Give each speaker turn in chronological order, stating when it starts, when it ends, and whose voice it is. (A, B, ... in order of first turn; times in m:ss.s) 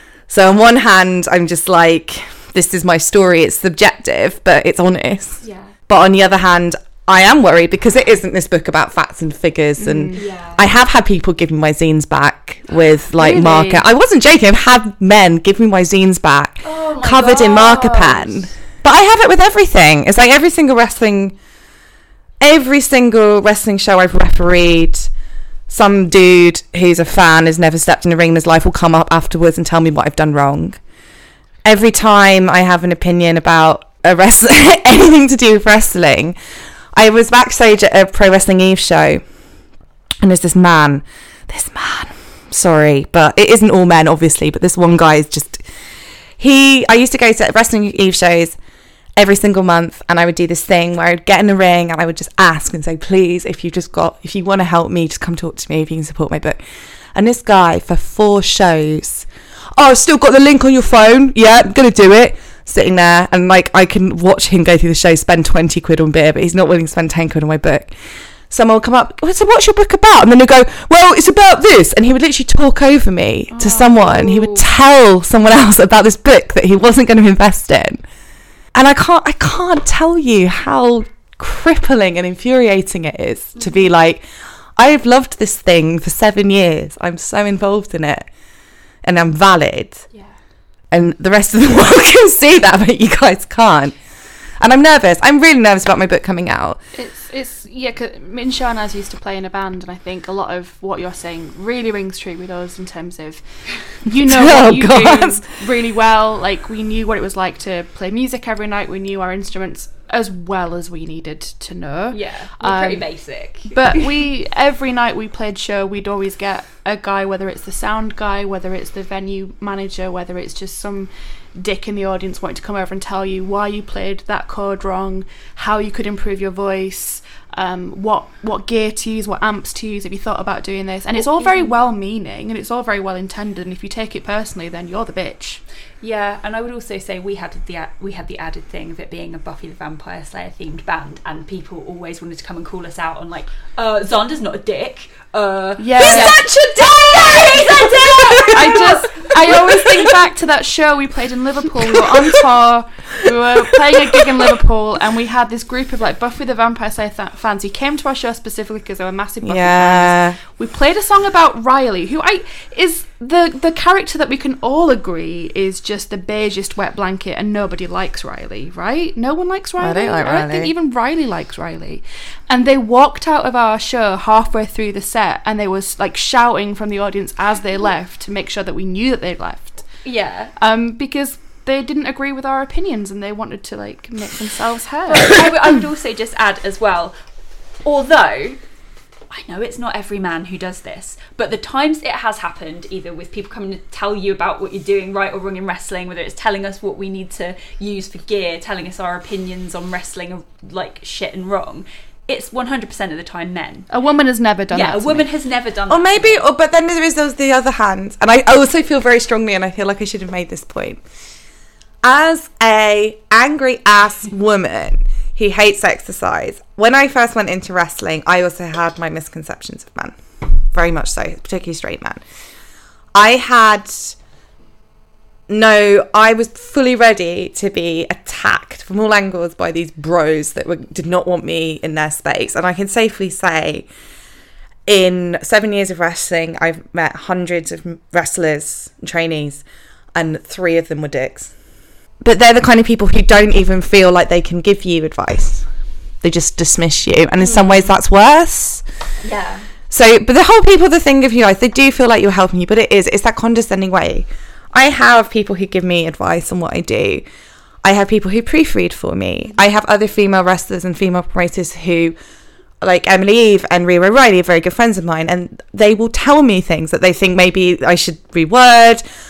0:00.3-0:21.3 A
0:05.4-0:05.7 B
0:09.8-0:10.2 C
0:10.1-0:10.6 B
0:13.2-0:13.8 C
0:16.6-0:18.5 B
0:22.4-0:25.1 A
0:25.7-0:30.8 A
0:31.6-0:36.4 A
0:36.9-0:39.2 A
0:40.2-0:45.6 A
0:46.4-0:48.6 A
0:49.2-0:56.6 A
0:57.1-0:59.2 A
0:59.8-1:07.9 A
1:08.5-1:18.0 A
1:13.6-1:14.6 B
1:18.7-1:24.2 A
1:24.8-1:28.3 A
1:29.0-1:30.0 A
1:30.9-1:34.0 A
1:34.6-1:36.8 A
1:36.9-1:43.4 C
1:43.9-1:53.1 C
1:44.3-1:45.5 A
1:52.1-1:54.1 B
1:53.7-2:15.6 C
2:11.3-2:11.8 B
2:16.0-2:29.0 B
2:25.8-2:26.4 C
2:26.0-2:30.0 A
2:28.5-2:59.8 C
2:33.6-2:34.2 A
2:39.4-2:40.4 A
2:49.8-2:50.7 A
3:00.0-3:00.5 B
3:00.6-3:05.5 C
3:05.1-3:07.1 B
3:07.8-3:08.6 B
3:09.3-3:23.9 B
3:23.9-3:25.3 C
3:24.7-3:26.4 B
3:25.9-3:31.0 A
3:32.0-3:40.2 A
3:40.7-3:42.2 A
3:43.1-3:44.2 A
3:45.5-3:53.9 A
3:54.8-3:59.6 A
4:00.1-4:01.5 A
4:02.2-4:05.7 A
4:06.2-4:08.8 A
4:09.2-4:09.7 B
4:09.9-4:17.2 A
4:17.8-4:22.2 A
4:22.8-4:29.0 A